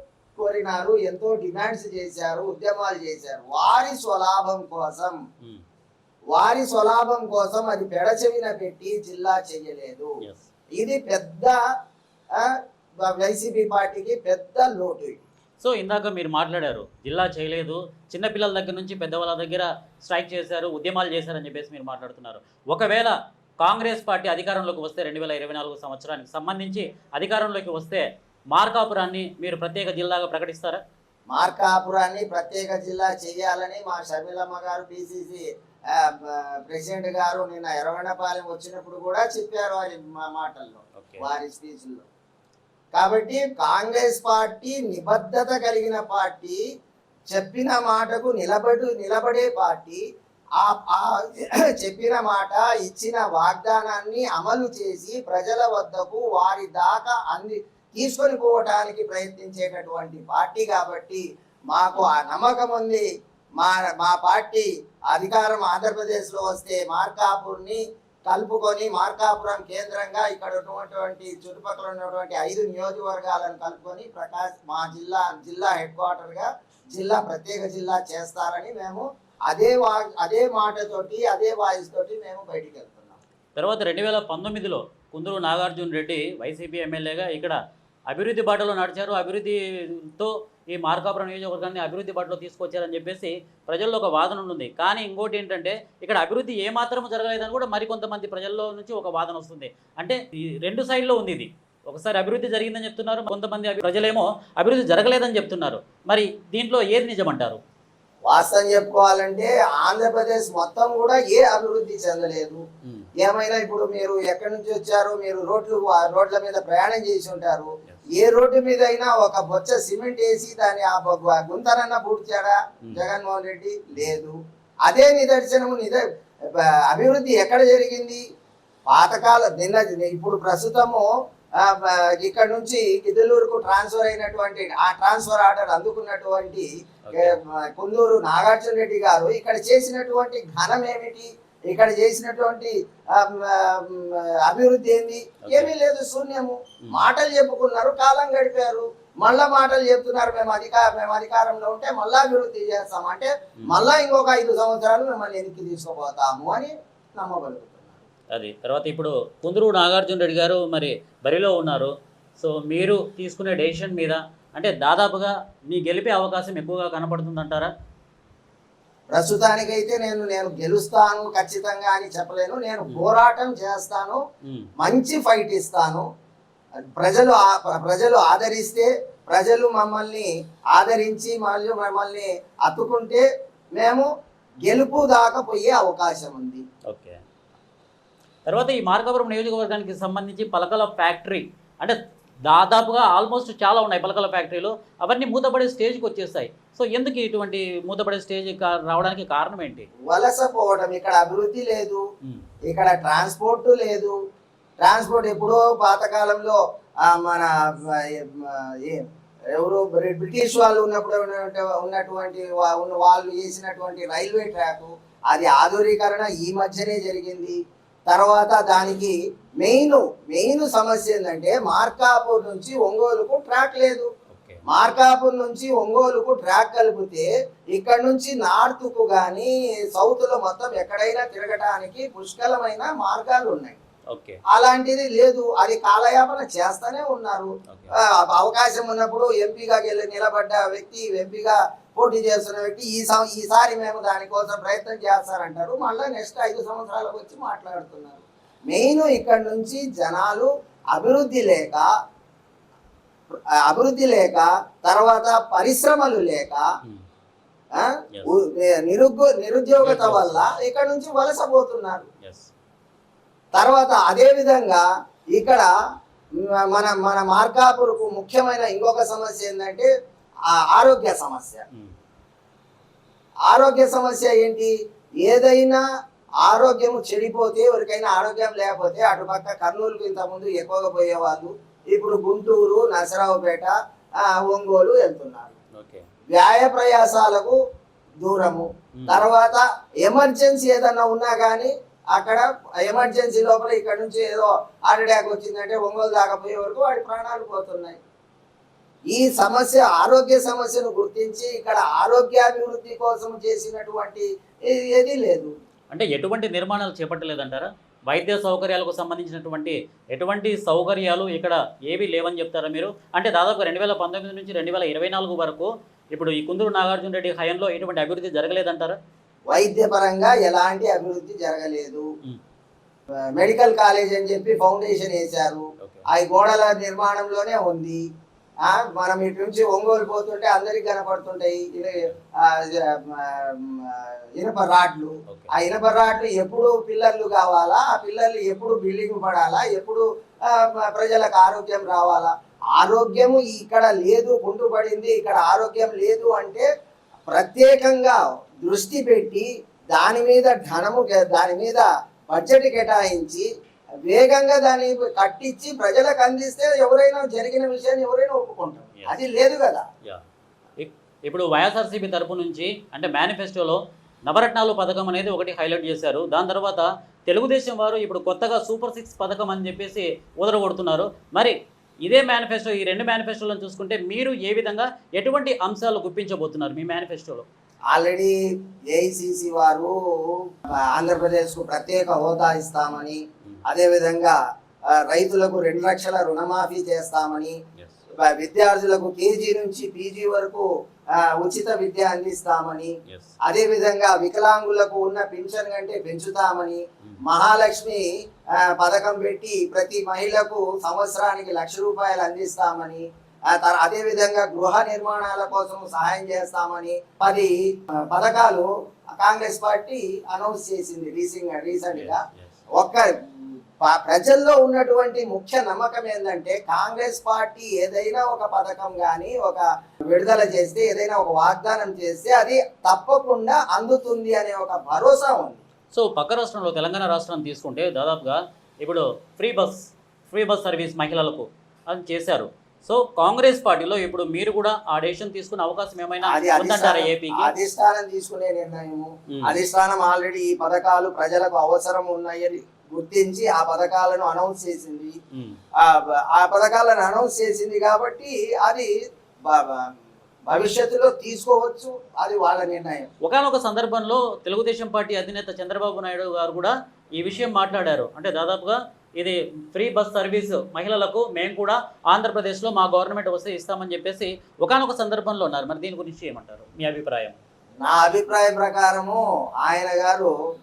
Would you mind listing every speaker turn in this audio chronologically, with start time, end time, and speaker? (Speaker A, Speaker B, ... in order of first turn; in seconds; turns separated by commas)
Speaker A: 0.4-5.2, Speaker A: 6.3-10.1, Speaker A: 10.8-11.6, Speaker A: 12.4-15.2, Speaker B: 15.6-30.8, Speaker A: 31.3-42.1, Speaker B: 41.0-41.3, Speaker A: 43.0-46.6, Speaker A: 47.3-50.0, Speaker A: 50.6-63.1, Speaker A: 63.6-83.2, Speaker B: 83.6-87.6, Speaker B: 88.1-107.6, Speaker A: 108.3-112.6, Speaker A: 113.2-128.2, Speaker A: 128.9-158.0, Speaker B: 137.1-137.4, Speaker B: 145.4-145.7, Speaker B: 158.3-167.7, Speaker A: 169.1-174.2, Speaker B: 174.4-174.7, Speaker A: 174.8-176.1, Speaker A: 177.0-183.3, Speaker A: 183.8-184.1, Speaker A: 184.7-186.6, Speaker B: 186.9-187.2, Speaker B: 188.5-199.9, Speaker A: 200.1-202.0, Speaker A: 202.7-204.2, Speaker A: 204.8-224.1, Speaker B: 224.3-224.6, Speaker A: 224.7-233.8, Speaker B: 234.1-234.4, Speaker A: 234.5-251.9, Speaker A: 253.3-256.7, Speaker A: 257.8-262.1, Speaker B: 259.8-260.5, Speaker B: 262.2-262.5, Speaker A: 263.6-265.7, Speaker A: 266.7-269.9, Speaker A: 270.5-271.6, Speaker A: 273.5-275.8, Speaker A: 276.4-285.5, Speaker B: 285.8-286.1, Speaker A: 286.3-287.6, Speaker A: 288.2-298.0, Speaker B: 289.0-289.3, Speaker A: 299.1-305.5, Speaker B: 305.9-319.0, Speaker A: 319.5-322.1, Speaker A: 323.4-328.0, Speaker B: 325.8-326.1, Speaker A: 328.7-346.7, Speaker A: 347.3-353.5, Speaker A: 354.1-359.9, Speaker B: 360.8-377.5, Speaker A: 377.9-378.4, Speaker A: 378.9-384.4, Speaker A: 385.0-387.6, Speaker A: 388.2-390.7, Speaker A: 391.4-392.9, Speaker B: 393.1-393.4, Speaker A: 393.4-398.1, Speaker A: 398.6-412.2, Speaker B: 411.9-412.6, Speaker A: 412.8-413.1, Speaker A: 413.8-425.6, Speaker B: 425.9-437.5, Speaker A: 436.2-445.2, Speaker B: 439.3-439.6, Speaker A: 445.8-448.9, Speaker A: 449.5-449.9, Speaker A: 450.5-453.1, Speaker B: 453.2-467.4, Speaker A: 467.8-470.3